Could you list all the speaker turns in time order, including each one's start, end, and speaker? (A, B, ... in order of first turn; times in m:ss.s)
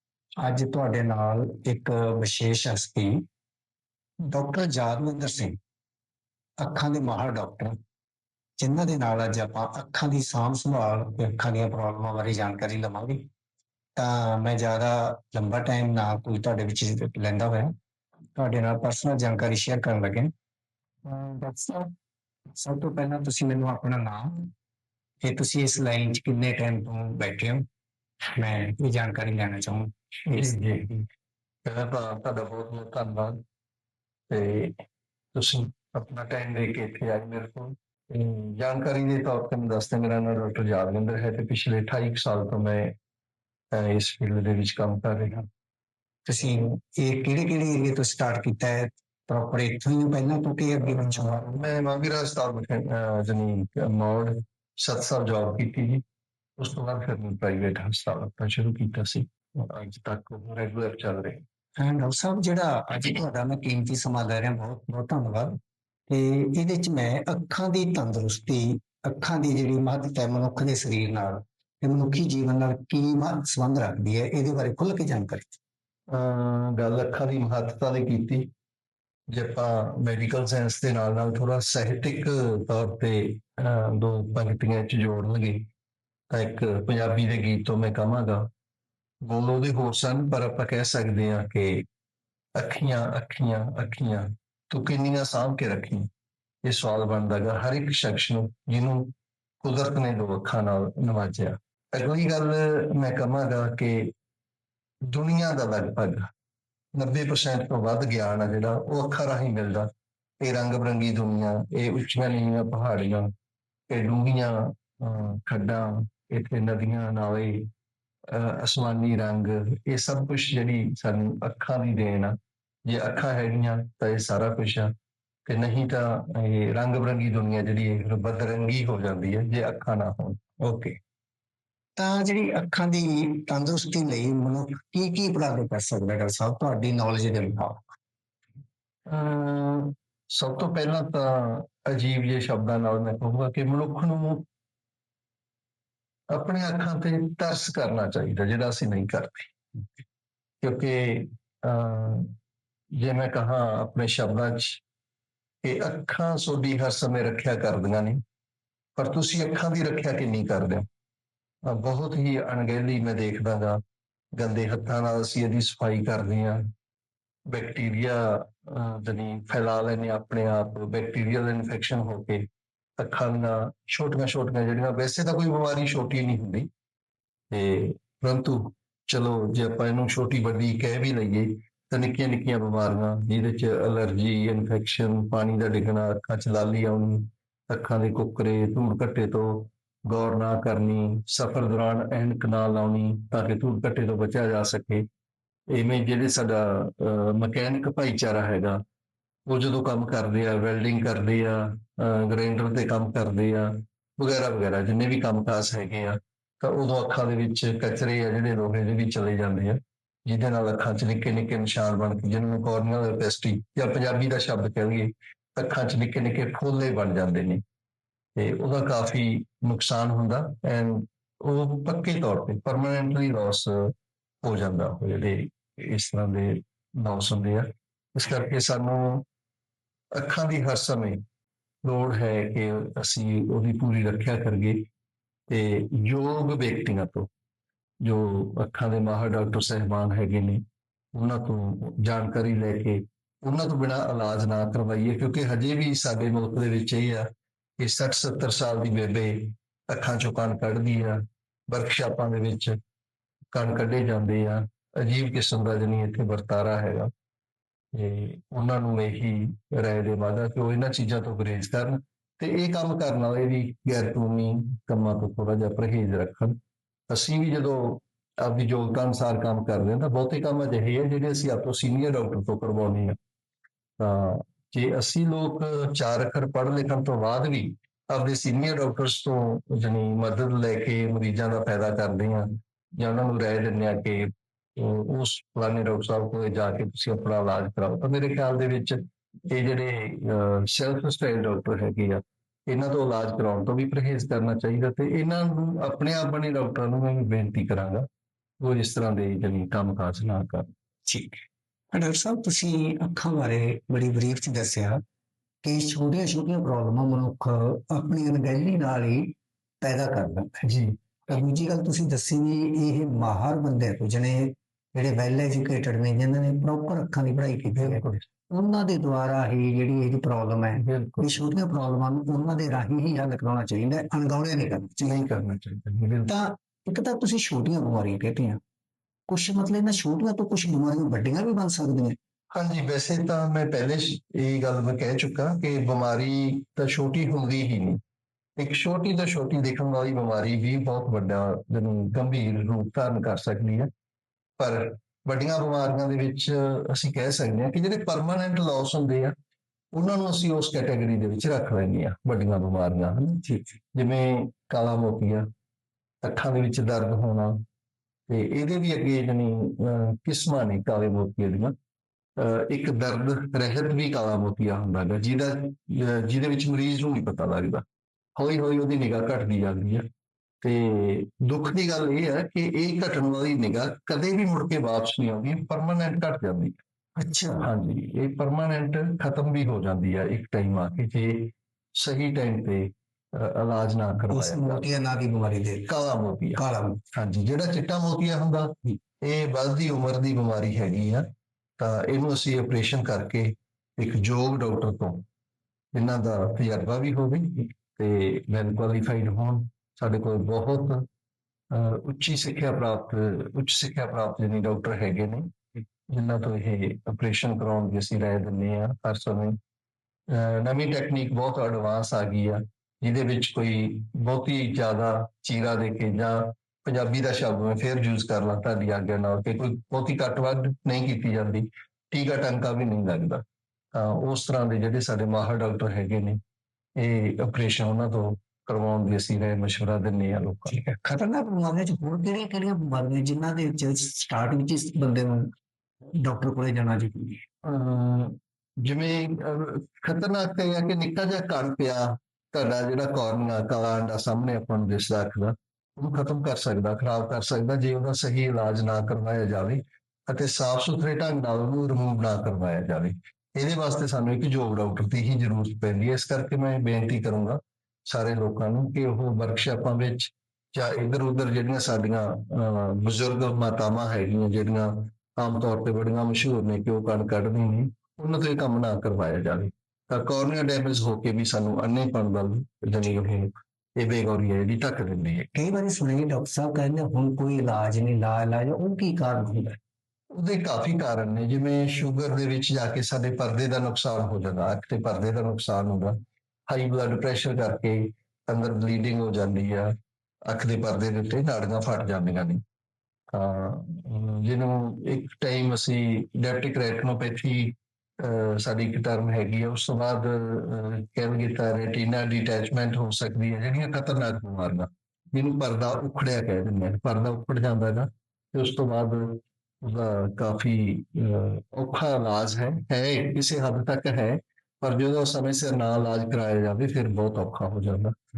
0:00.4-0:03.2 A
0:04.3-0:05.6 A
0:06.6-0:07.8 A
0:08.6-0:13.3 A
0:14.0-0:17.7 A
0:18.4-0:20.3 A
0:21.1-0:21.9 A
0:22.6-0:24.5 A
0:25.2-0:27.6 A
0:28.4-0:30.8 A
0:30.3-0:31.0 B
0:31.6-0:33.4 B
0:34.3-0:34.8 B
0:35.3-0:42.9 B
0:43.7-0:45.5 B
0:46.3-0:51.6 A
0:50.8-0:56.0 B
0:56.6-1:01.4 B
1:01.8-1:15.6 A
1:16.1-1:18.5 B
1:19.3-1:25.7 B
1:26.3-1:28.5 B
1:29.2-1:31.8 B
1:32.6-1:36.1 B
1:36.6-1:44.1 B
1:45.1-1:46.3 B
1:47.0-1:49.9 B
1:50.4-1:53.3 B
1:53.9-1:57.7 B
1:58.3-2:04.9 B
2:05.5-2:10.4 B
2:10.6-2:11.0 A
2:12.0-2:18.0 A
2:19.1-2:24.4 B
2:26.3-2:29.5 B
2:30.6-2:32.3 B
2:33.0-2:34.8 B
2:35.6-2:38.2 B
2:39.0-2:40.9 B
2:41.6-2:43.8 B
2:44.4-2:46.6 B
2:47.5-2:52.4 B
2:53.0-2:56.7 B
2:57.5-3:15.0 B
3:15.7-3:18.8 B
3:19.5-3:37.6 B
3:38.4-3:49.2 B
3:50.1-3:51.2 B
3:51.8-3:54.9 B
3:55.5-3:57.3 B
3:58.0-4:00.6 B
4:01.1-4:07.3 B
4:07.8-4:12.8 B
4:13.5-4:17.1 B
4:17.9-4:26.6 B
4:27.1-4:33.2 B
4:34.0-4:58.1 B
4:58.6-5:00.7 B
5:01.1-5:05.0 A
5:05.6-5:10.7 A
5:10.6-5:10.9 B
5:11.3-5:25.1 A
5:17.7-5:18.2 B
5:20.8-5:21.4 B
5:25.0-5:26.4 B
5:26.3-5:28.6 A
5:29.3-5:32.2 A
5:32.5-5:38.0 B
5:38.6-5:43.9 B
5:44.6-5:49.3 B
5:49.9-5:53.4 B
5:53.4-5:53.8 A
5:53.9-5:55.5 B
5:56.2-5:57.6 B
5:58.3-6:01.7 B
6:02.4-6:07.8 B
6:08.4-6:10.0 B
6:10.6-6:16.8 B
6:17.2-6:17.7 A
6:17.6-6:24.9 B
6:24.3-6:26.0 A
6:25.9-6:26.6 B
6:26.6-6:27.0 A
6:27.1-6:31.2 B
6:31.8-6:35.2 B
6:35.9-6:41.0 B
6:41.7-6:45.5 B
6:46.1-6:49.6 B
6:50.3-7:06.4 B
7:07.0-7:10.8 B
7:10.7-7:15.5 A
7:16.2-7:17.4 A
7:17.6-7:55.5 B
7:55.5-7:59.8 A
8:00.3-8:06.2 B
8:06.7-8:09.9 B
8:10.5-8:12.6 B
8:13.3-8:38.1 B